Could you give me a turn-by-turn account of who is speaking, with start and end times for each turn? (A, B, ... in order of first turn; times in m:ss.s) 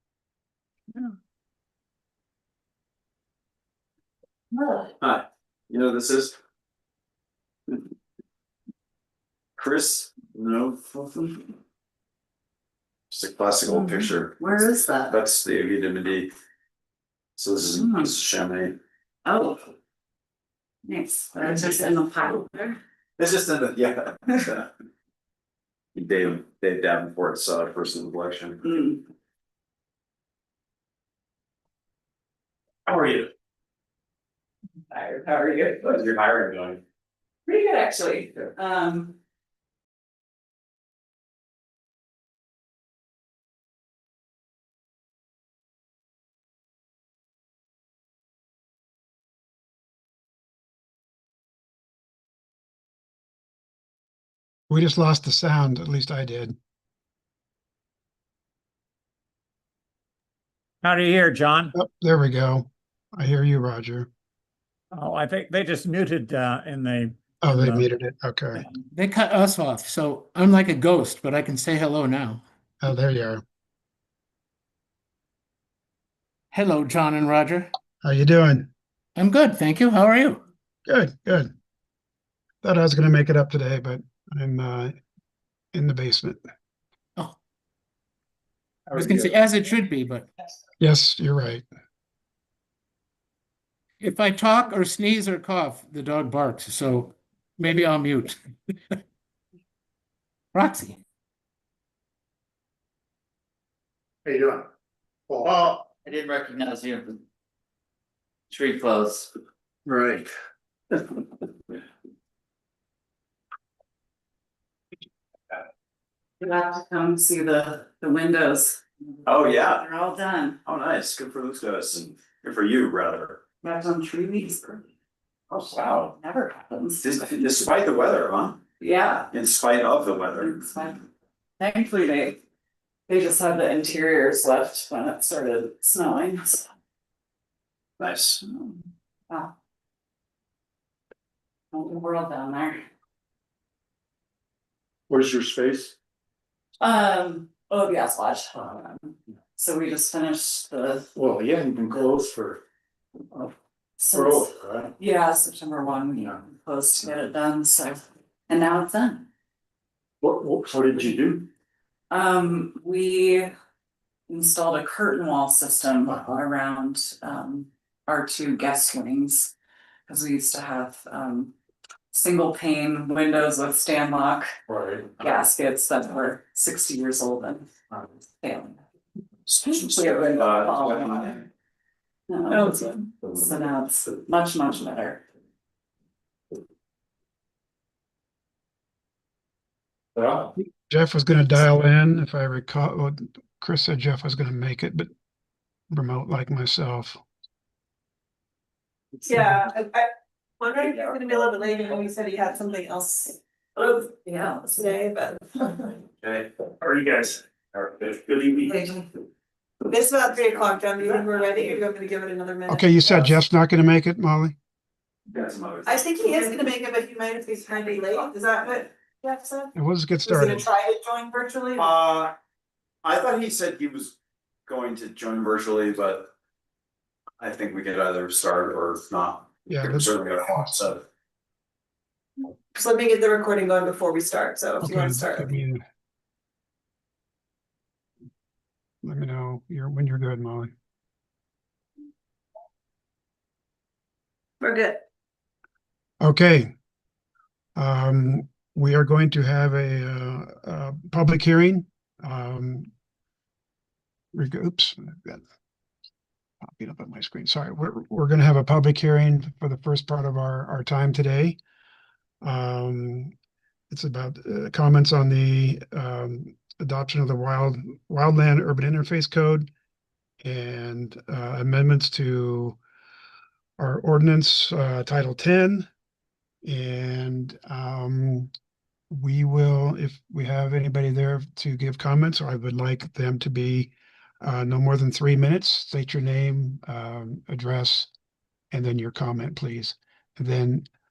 0:04.5-0:04.9 A
0:05.0-0:06.3 B
0:09.6-0:10.9 B
0:11.0-0:11.3 A
0:13.1-0:16.3 B
0:13.6-0:15.2 A
0:17.4-0:18.7 B
0:17.7-0:18.1 A
0:19.2-0:19.6 A
0:20.8-0:22.8 A
0:23.2-0:24.7 B
0:25.9-0:28.6 B
0:28.6-0:29.0 A
0:32.8-0:33.3 B
0:34.9-0:36.0 A
0:35.8-0:36.8 B
0:37.5-0:39.1 A
0:54.7-0:56.5 C
1:00.8-1:01.7 D
1:01.7-1:04.1 C
1:04.9-1:07.9 D
1:07.4-1:08.6 C
1:08.9-1:12.4 E
1:12.8-1:13.4 C
1:16.5-1:17.7 E
1:18.0-1:18.7 C
1:19.2-1:20.4 E
1:20.9-1:21.5 C
1:22.6-1:24.9 C
1:25.7-1:26.4 C
1:28.9-1:30.3 E
1:29.0-1:29.3 D
1:30.8-1:31.6 C
1:34.0-1:38.4 E
1:40.5-1:41.0 E
1:44.2-1:44.7 F
1:45.3-1:45.8 F
1:45.6-1:47.2 G
1:48.5-1:49.3 G
1:49.9-1:50.3 F
1:56.4-2:00.6 A
1:59.2-1:59.8 B
2:00.6-2:03.4 B
2:03.6-2:04.8 A
2:05.5-2:06.1 B
2:05.7-2:07.0 A
2:07.0-2:08.6 B
2:08.8-2:09.3 A
2:09.3-2:10.6 B
2:10.4-2:11.0 A
2:11.6-2:12.4 A
2:13.1-2:16.7 A
2:18.0-2:18.4 B
2:18.4-2:19.5 A
2:21.7-2:22.8 A
2:25.1-2:25.9 F
2:26.8-2:31.1 A
2:31.1-2:32.6 F
2:34.0-2:39.2 A
2:34.1-2:34.9 F
2:40.2-2:41.4 F
2:42.1-2:43.5 A
2:44.3-2:49.5 A
2:46.0-2:46.4 F
2:50.1-2:51.5 A
2:52.1-2:54.5 A
2:54.7-2:55.3 F
2:55.2-2:57.7 A
2:58.4-2:58.8 A
2:59.5-3:01.3 B
2:59.6-3:01.4 A
3:02.3-3:05.2 A
3:02.5-3:03.0 H
3:10.6-3:15.1 C
3:15.9-3:17.2 C
3:19.2-3:20.1 H
3:20.6-3:23.4 H
3:23.8-3:24.9 A
3:24.7-3:26.0 H
3:27.7-3:28.4 B
3:28.6-3:29.0 H
3:29.9-3:33.3 H
3:32.7-3:34.6 C
3:35.3-3:36.0 B
3:35.8-3:39.7 H
3:39.7-3:40.6 C
3:40.2-3:41.9 H
3:41.8-3:42.3 B
3:43.0-3:46.3 B
3:47.4-3:51.0 B
3:49.7-3:50.7 C
3:52.7-3:55.5 H
3:54.8-3:55.8 C
3:59.0-4:00.7 C
4:04.6-4:05.0 H
4:06.2-4:06.7 C
4:07.8-4:12.9 C
4:14.3-4:15.4 C
4:16.6-4:21.6 C
4:22.4-4:23.3 C
4:23.9-4:29.7 C
4:30.4-4:32.8 C
4:33.8-4:35.9 C
4:36.6-4:38.5 C
4:39.1-4:48.1 C
4:48.7-4:50.8 C